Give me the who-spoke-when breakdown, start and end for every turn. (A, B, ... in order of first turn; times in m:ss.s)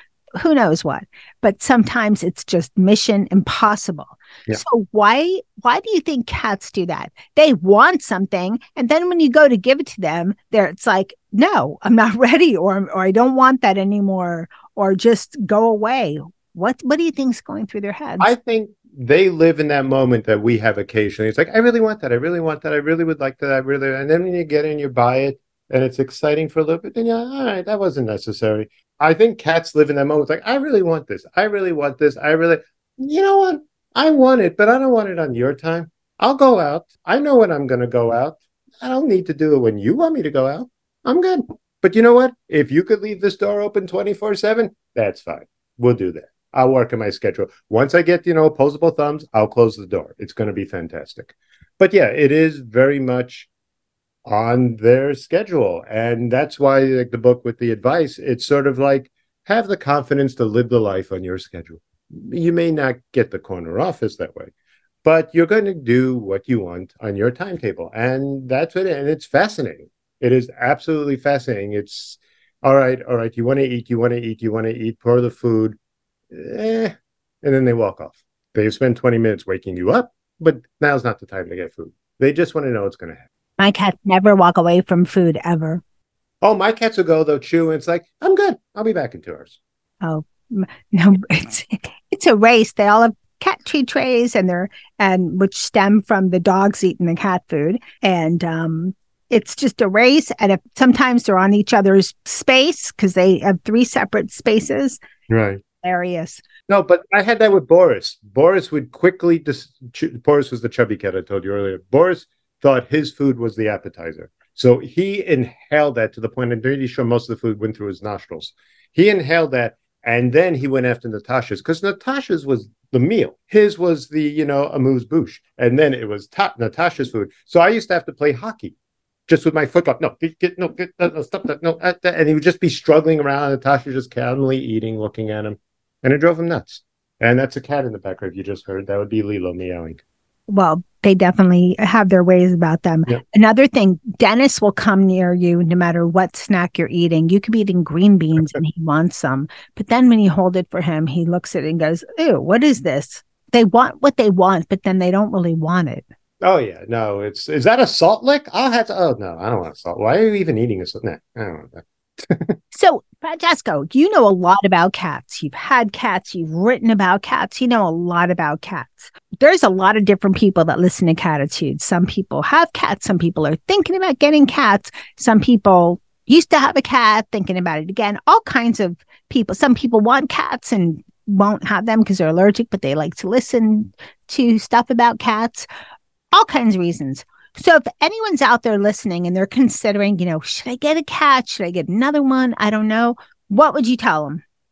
0:00.4-0:18.3 A
0:18.2-0:53.5 B
0:54.2-1:04.5 B
1:05.0-1:15.8 B
1:16.3-1:23.2 B
1:23.6-1:25.8 A
1:26.4-1:29.6 B
1:30.0-1:45.0 A
1:45.3-1:45.6 B
1:45.8-1:46.4 A
1:46.7-2:08.7 B
2:09.3-2:20.0 B
2:20.5-2:36.0 A
2:36.4-2:42.6 B
2:42.7-3:05.7 A
3:06.3-3:14.4 A